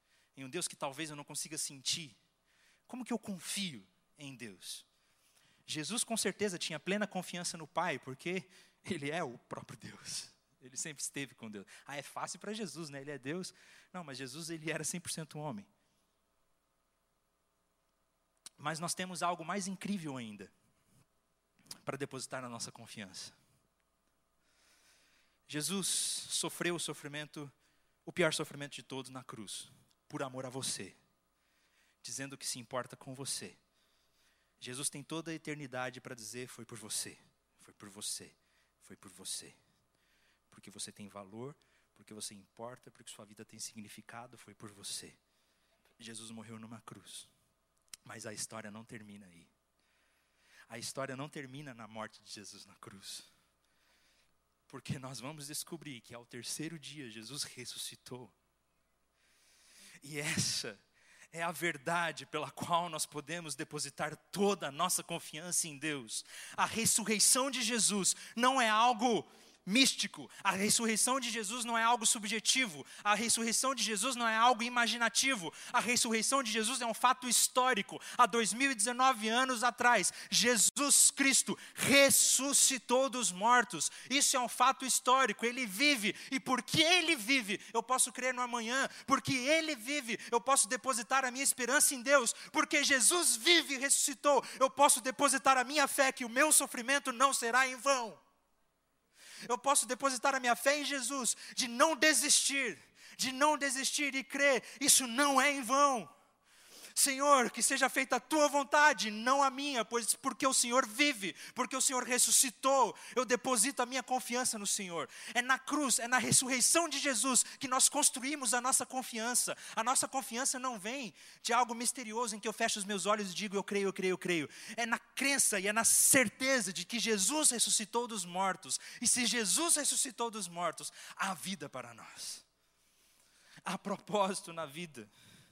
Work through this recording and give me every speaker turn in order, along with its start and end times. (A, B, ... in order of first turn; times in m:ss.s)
0:00.3-0:02.2 A
0:02.9-0:04.8 A
0:05.6-0:15.7 A
0:18.6-0:20.5 A
0:21.8-0:23.3 A
0:25.5-0:27.5 A
0:28.0-0:31.0 A
0:32.0-0:33.6 A
0:34.6-0:39.6 A
0:40.5-0:45.2 A
0:46.0-0:47.3 A
0:48.0-0:49.5 A
0:50.7-0:53.3 A
0:54.7-0:58.3 A
1:00.0-1:00.8 A
1:01.3-1:38.2 A
1:39.4-1:46.1 A
1:46.9-2:12.4 A
2:13.6-2:15.1 A